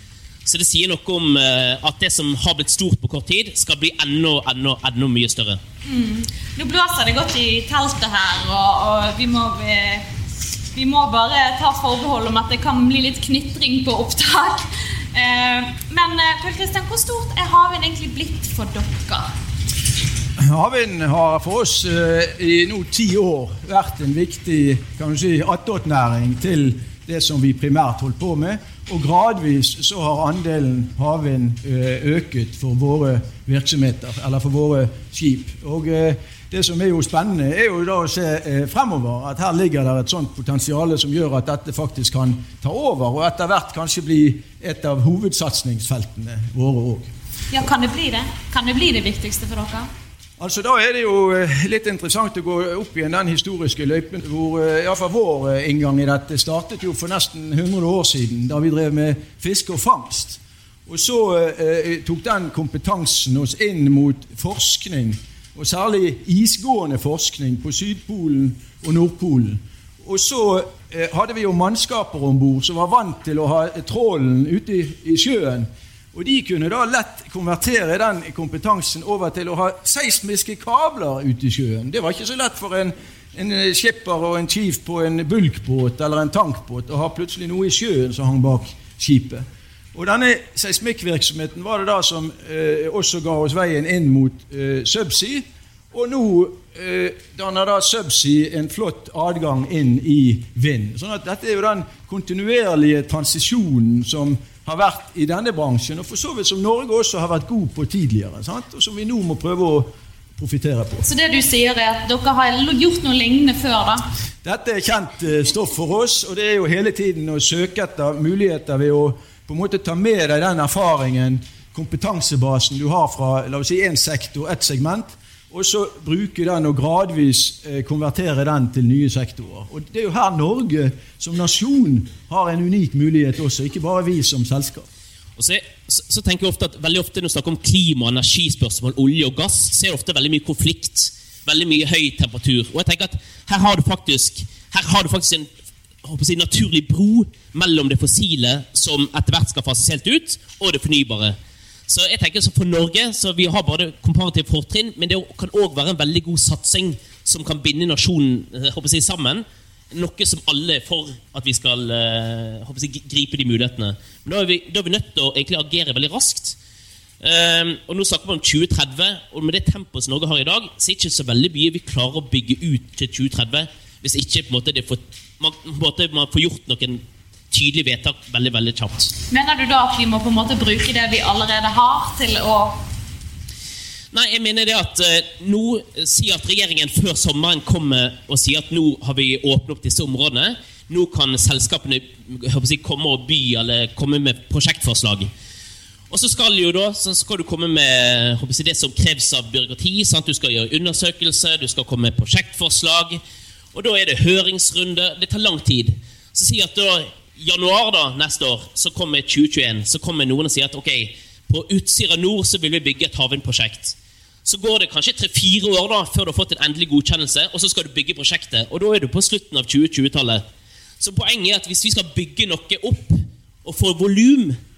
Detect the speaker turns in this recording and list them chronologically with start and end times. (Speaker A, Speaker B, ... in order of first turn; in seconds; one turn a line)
Speaker A: 0.5-5.6
Speaker B: 5.8-10.1
Speaker B: 10.7-19.2
Speaker C: 20.4-47.1
Speaker B: 47.5-49.9
Speaker C: 50.4-111.1
Speaker B: 111.0-114.0
Speaker C: 114.4-134.9
Speaker A: 135.4-145.5
Speaker A: 146.0-151.3
Speaker A: 151.9-166.6
Speaker A: 167.2-179.1
Speaker B: 179.3-182.8
Speaker A: 184.1-195.3
Speaker A: 196.1-203.2
Speaker A: 203.7-220.4
Speaker A: 221.0-224.6